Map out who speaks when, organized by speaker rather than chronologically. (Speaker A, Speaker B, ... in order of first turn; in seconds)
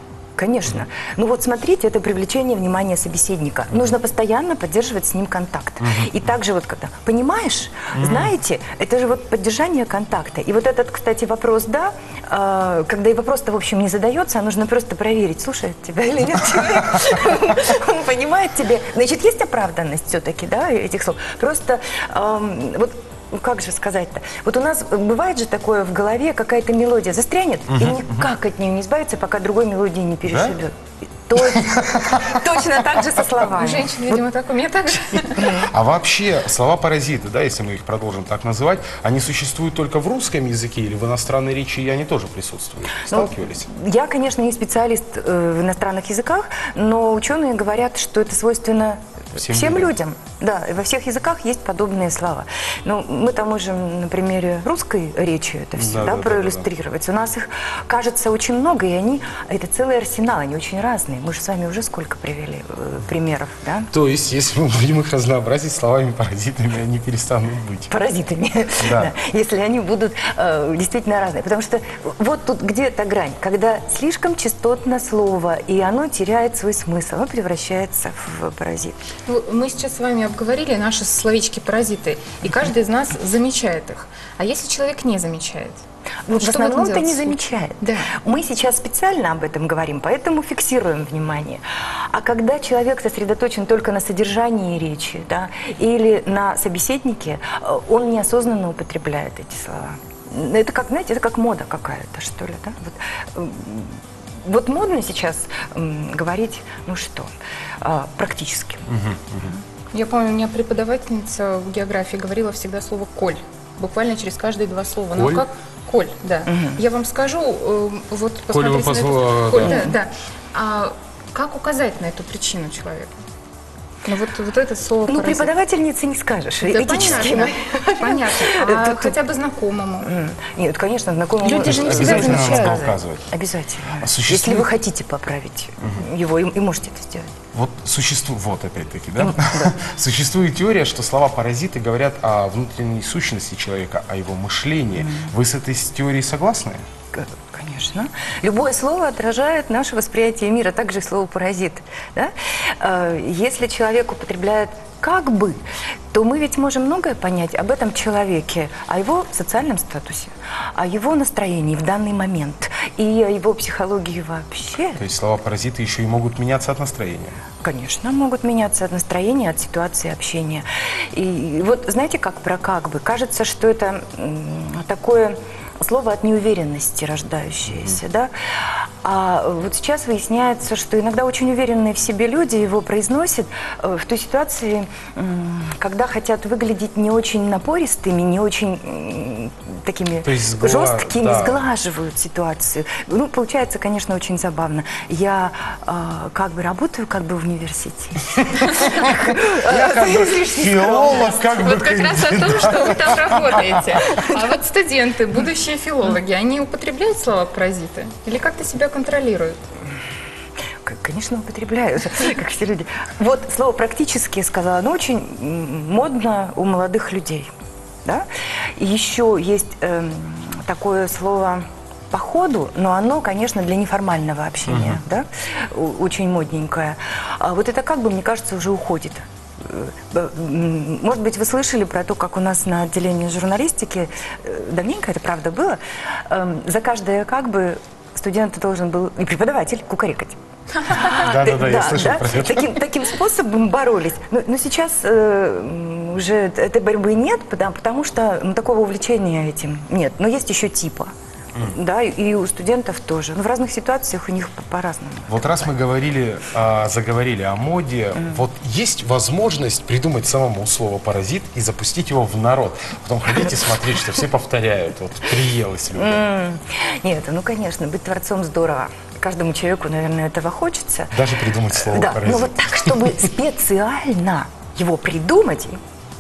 Speaker A: 0.4-34.2, 35.0-35.6, 43.0-63.9, 67.9-79.0, 86.3-107.3, 107.8-109.6, 116.5-116.8, 125.1-129.2, 130.0-137.3, 139.2-139.8, 145.0-145.3, 147.1-165.0, 167.6-201.2, 204.1-204.4, 210.8-217.5, 218.8-255.7, 265.9-271.2, 271.7-275.8
Speaker B: 5.8-6.1, 7.9-8.3, 27.7-28.2, 30.3-30.6, 31.4-32.4, 35.4-43.7, 49.4-49.9, 55.8-56.7, 63.9-67.9, 68.8-69.1, 108.9-109.5, 115.2-115.5, 118.5-119.9, 131.6-133.3, 134.0-134.7, 137.5-146.8, 165.0-167.4, 190.2-191.6, 198.4-204.0, 224.7-225.0, 241.1-242.7, 255.3-266.2, 271.1-273.2
Speaker C: 33.5-35.6, 79.3-85.8, 86.3-88.1, 109.9-123.1, 124.0-125.5, 126.6-130.1, 131.4-132.8, 201.0-209.6, 240.8-241.2